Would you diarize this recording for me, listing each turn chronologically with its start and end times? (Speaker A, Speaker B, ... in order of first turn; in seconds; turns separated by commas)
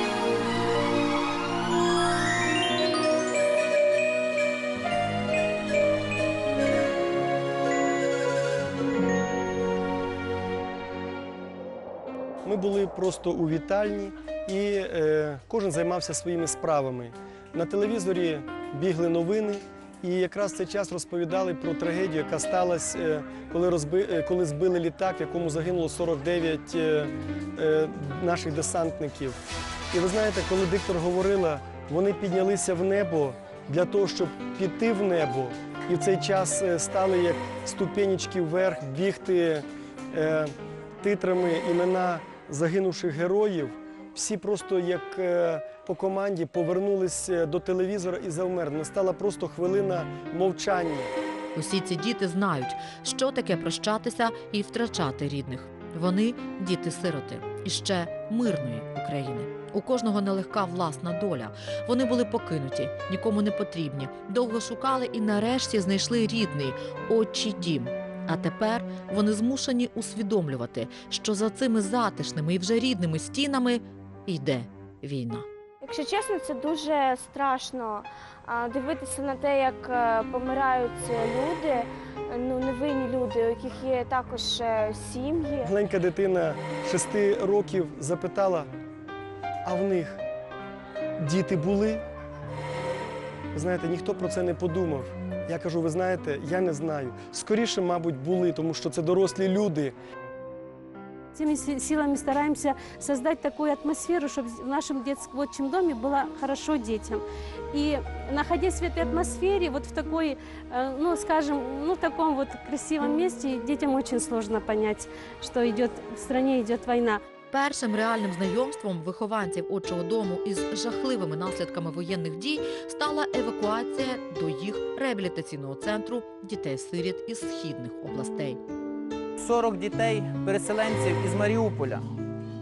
Speaker A: 12.4-29.4, Speaker A: 29.9-51.1, Speaker B: 51.5-75.5, Speaker C: 75.8-85.7, Speaker A: 85.6-88.7, Speaker A: 89.7-90.2, Speaker A: 91.2-92.0, Speaker A: 93.5-100.0, Speaker D: 101.3-117.2, Speaker B: 117.5-128.6, Speaker E: 129.4-132.1